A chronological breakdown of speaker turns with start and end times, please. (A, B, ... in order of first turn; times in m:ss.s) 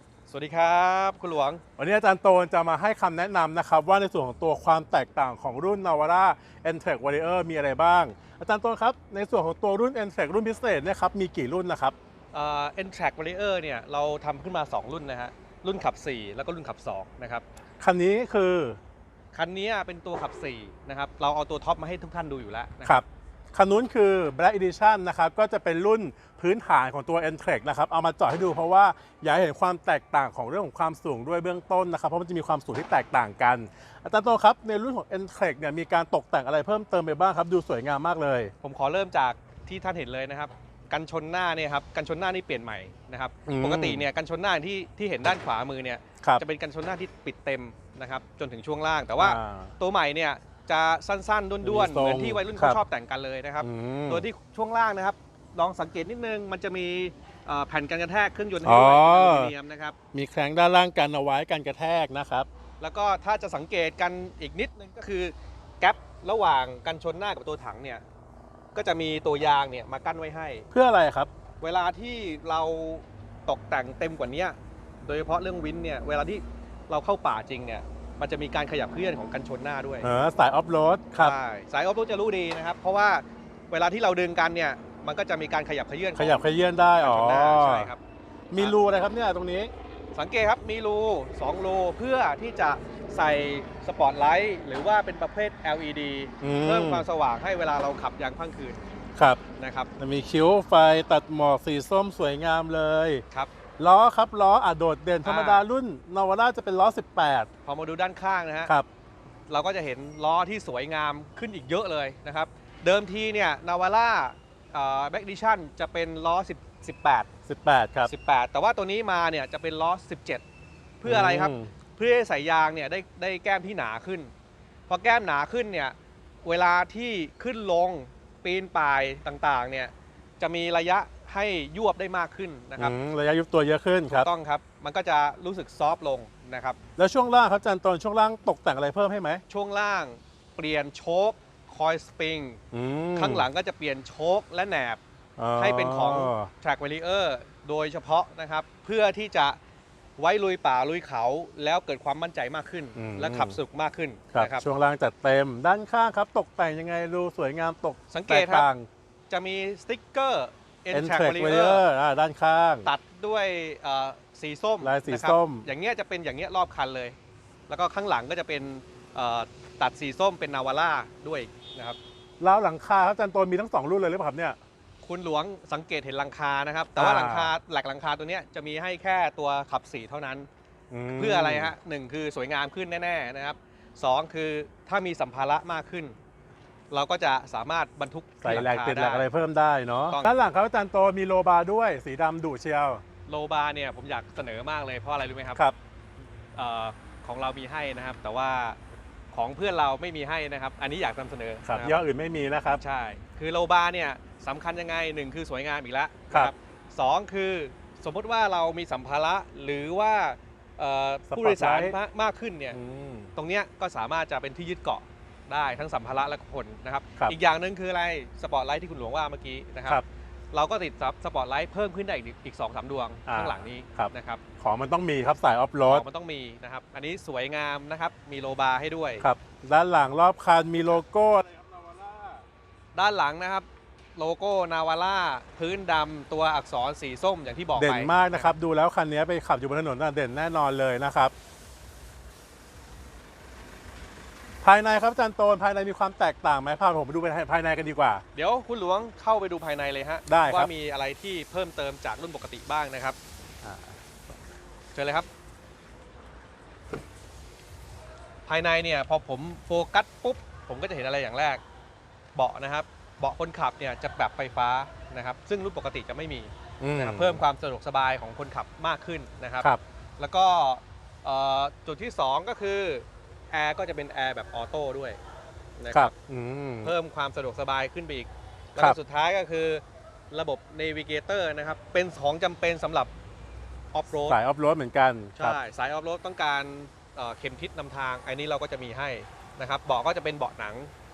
0:00.3-0:01.6 A
0:01.8-0:12.0 B
0:12.3-0:17.4 A
0:17.8-0:18.8 B
0:19.3-0:23.0 A
0:22.8-0:38.5 B
0:38.6-1:00.0 A
0:43.5-0:44.1 B
0:49.2-0:49.8 B
0:51.6-0:52.8 B
0:53.6-0:54.3 B
0:58.6-0:59.5 B
1:00.1-1:02.5 B
1:02.8-1:08.0 A
1:08.7-1:10.7 A
1:10.7-1:11.3 B
1:11.6-1:20.1 A
1:20.0-1:21.4 B
1:21.2-1:26.4 A
1:26.2-1:27.9 B
1:27.0-1:28.0 A
1:28.5-1:29.7 B
1:30.1-1:38.8 A
1:36.4-1:37.1 B
1:39.2-1:39.4 B
1:39.6-1:39.9 A
1:40.0-1:43.2 B
1:43.8-1:47.5 B
1:45.2-1:45.6 A
1:47.6-1:48.7 A
1:49.5-1:57.3 A
1:57.5-1:58.1 B
1:58.0-2:00.4 A
2:01.0-2:04.3 A
2:01.0-2:01.7 B
2:04.9-2:13.0 A
2:12.8-2:14.3 B
2:14.1-2:16.8 A
2:17.0-2:19.4 B
2:19.5-2:22.6 A
2:22.7-2:23.5 B
2:23.1-2:25.0 A
2:25.4-2:26.5 B
2:25.6-2:29.6 A
2:30.2-2:34.6 A
2:33.0-2:33.6 B
2:34.3-2:38.9 B
2:38.1-2:38.7 A
2:39.3-2:41.8 A
2:40.9-2:42.9 B
2:42.8-2:47.2 A
2:44.8-2:45.7 B
2:47.7-2:52.0 A
2:52.4-2:54.6 B
2:55.0-3:00.5 A
2:57.0-2:57.5 B
3:00.9-3:01.7 B
3:01.2-3:06.2 A
3:06.9-3:09.2 A
3:08.4-3:13.0 B
3:13.3-3:15.6 A
3:16.6-3:18.8 A
3:19.3-3:22.0 A
3:21.7-3:22.8 B
3:22.8-3:32.8 A
3:31.3-3:32.0 B
3:32.7-3:33.3 B
3:33.4-3:40.0 A
3:40.5-3:44.4 A
3:43.3-3:46.0 B
3:45.9-3:49.3 A
3:49.2-3:52.4 B
3:52.9-3:58.5 A
3:57.8-4:01.3 B
4:04.6-4:08.2 B
4:08.3-4:13.2 A
4:10.3-4:10.7 B
4:13.6-4:14.0 B
4:14.9-4:15.3 A
4:18.5-4:21.6 A
4:22.4-4:35.2 A
4:26.8-4:27.4 B
4:35.8-4:36.1 A
4:35.9-4:36.9 B
4:36.8-4:43.1 A
4:43.9-4:44.4 A
4:44.2-4:45.6 B
4:45.4-4:50.9 A